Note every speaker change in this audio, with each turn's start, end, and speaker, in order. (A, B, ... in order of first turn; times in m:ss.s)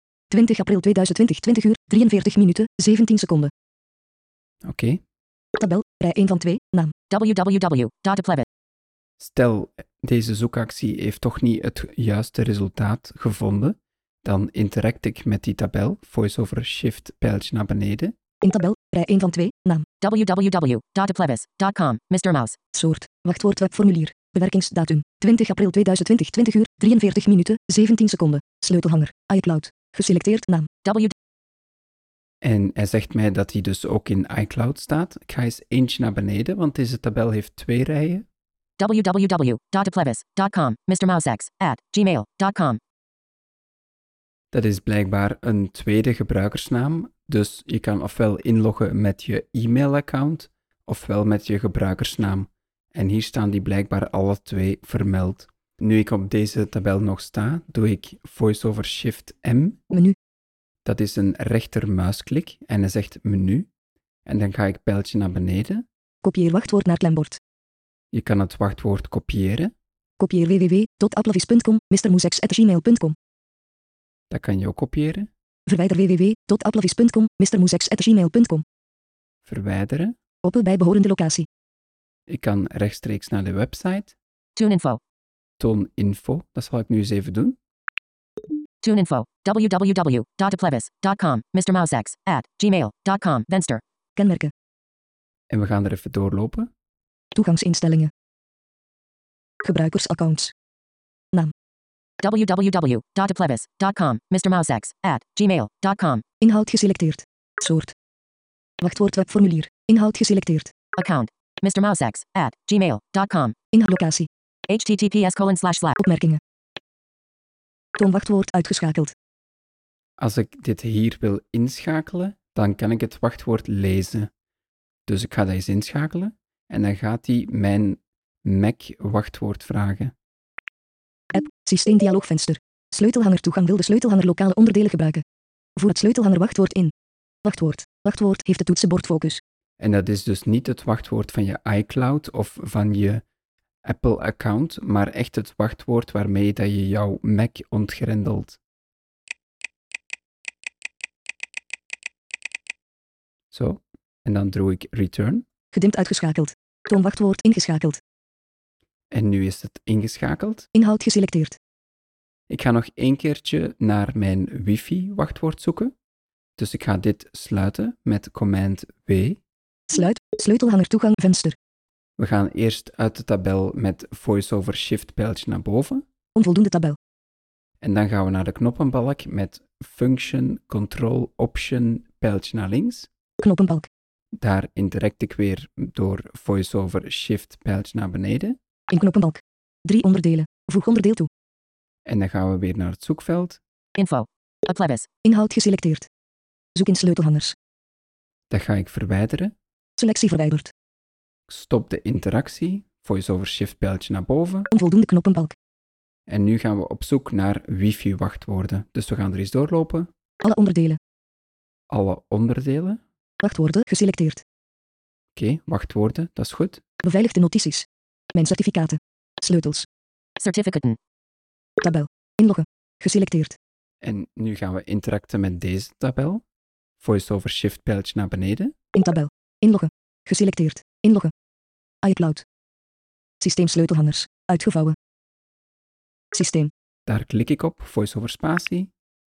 0:00.3-0:03.5 A
0:04.6-0:05.0 B
0:05.6-0:06.9 A
0:07.1-0:08.4 C
0:09.2-0:18.1 B
0:18.4-0:19.8 A
0:20.0-0:22.6 C
0:22.7-0:30.7 A
0:30.8-0:31.1 C
0:32.4-0:38.2 B
0:38.8-0:42.8 C
0:44.5-0:59.8 B
1:00.8-1:03.7 B
1:04.2-1:05.8 B
1:06.2-1:07.4 A
1:08.1-1:09.7 B
1:10.2-1:13.1 A
1:14.3-1:15.3 B
1:15.7-1:18.6 A
1:19.4-1:20.1 B
1:20.4-1:21.5 A
1:22.3-1:24.2 B
1:24.6-1:25.0 C
1:25.6-1:27.6 B
1:28.8-1:33.8 C
1:34.2-1:34.5 A
1:35.5-1:36.7 B
1:37.3-1:38.1 A
1:39.6-1:40.5 A
1:42.2-1:46.2 C
1:46.4-1:47.9 A
1:48.8-1:50.7 A
1:51.0-1:53.5 C
1:53.7-1:54.3 A
1:54.7-1:56.0 C
1:56.0-1:56.4 A
1:58.0-1:59.1 A
2:00.2-2:04.3 B
2:05.1-2:10.1 B
2:11.3-2:15.2 A
2:15.8-2:16.9 A
2:17.4-2:19.4 A
2:19.8-2:23.2 B
2:23.8-2:28.6 B
2:33.5-2:35.4 B
2:35.7-2:38.0 A
2:39.1-2:40.7 B
2:40.7-2:41.6 A
2:42.5-2:45.9 B
2:46.6-2:49.4 B
2:49.9-2:51.6 A
2:52.2-2:56.0 B
2:56.4-2:57.0 A
2:57.8-3:03.1 B
3:03.4-3:03.9 A
3:04.3-3:08.6 B
3:08.9-3:11.3 A
3:12.0-3:13.6 B
3:14.0-3:15.1 C
3:15.2-3:16.1 A
3:16.8-3:17.5 A
3:18.5-3:19.5 B
3:20.0-3:20.7 A
3:21.5-3:24.7 B
3:24.7-3:25.5 A
3:26.3-3:30.1 B
3:30.4-3:31.0 A
3:31.9-3:33.0 B
3:33.4-3:34.4 A
3:35.3-3:36.8 B
3:37.0-3:39.8 A
3:40.4-3:41.0 C
3:41.8-3:43.6 A
3:44.0-3:46.4 B
3:47.0-3:48.7 B
3:49.0-3:51.3 A
3:52.0-3:52.4 A
3:53.4-3:55.0 A
3:56.3-3:56.7 A
3:57.1-3:58.9 B